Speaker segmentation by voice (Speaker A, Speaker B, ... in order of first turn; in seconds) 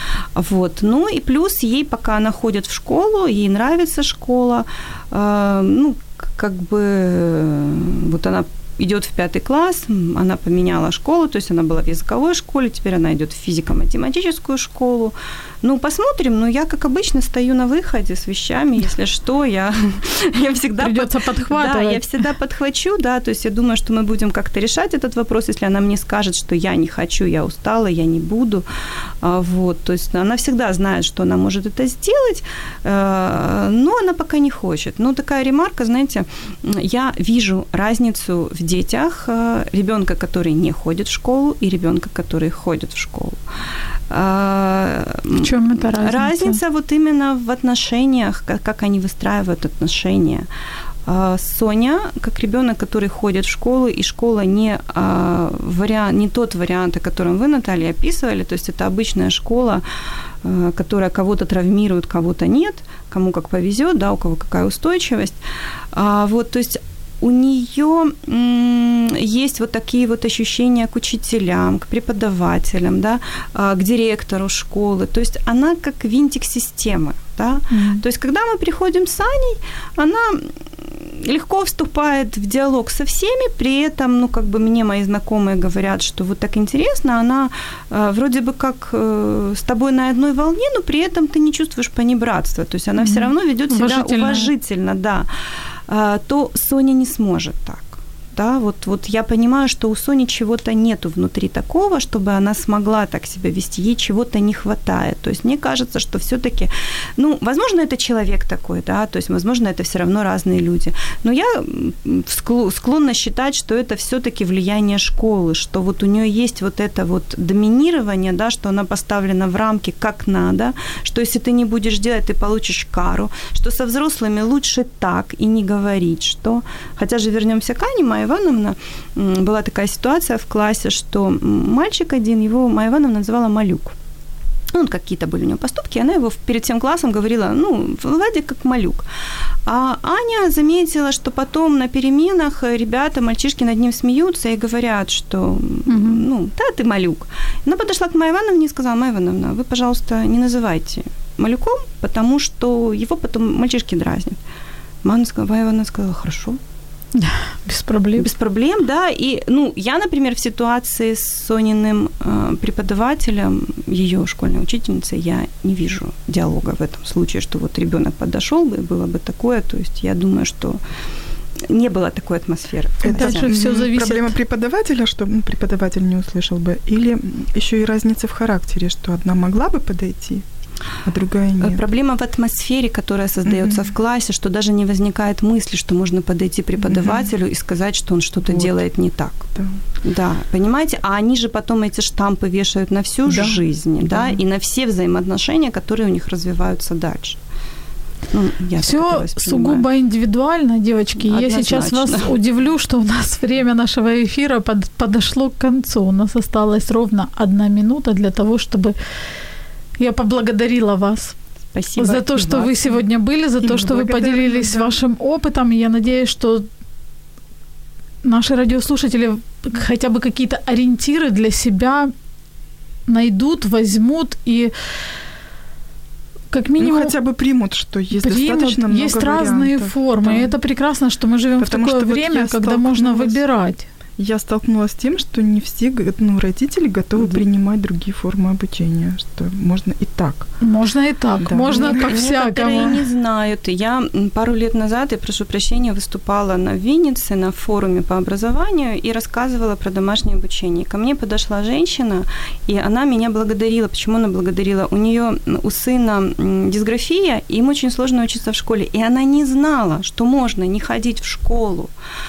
Speaker A: 0.4-28.7, 29.2-43.4, 44.1-50.5, 51.1-59.8, 60.4-65.4, 65.9-95.3, 95.9-133.9, 134.7-139.1, 139.7-154.4, 155.0-156.6, 158.2-170.8, 171.6-173.5, 181.6-189.5, 190.0-197.4, 198.3-199.9, 201.2-202.3, 211.7-213.0, 241.7-261.9
Speaker B: 20.8-22.0, 45.4-46.6, 77.7-78.0, 93.0-94.5, 145.9-146.2, 157.2-158.3, 173.1-174.4, 198.8-208.9, 210.0-211.4, 212.0-216.7, 218.2-222.1, 223.1-224.7, 226.5-227.1, 228.2-233.9, 240.6-243.0
Speaker C: 173.0-180.4, 181.0-181.8, 183.5-183.8, 186.8-187.3, 188.5-188.8, 193.3-194.4, 213.6-215.0, 226.8-230.6, 231.6-233.4, 234.2-240.5, 241.4-242.2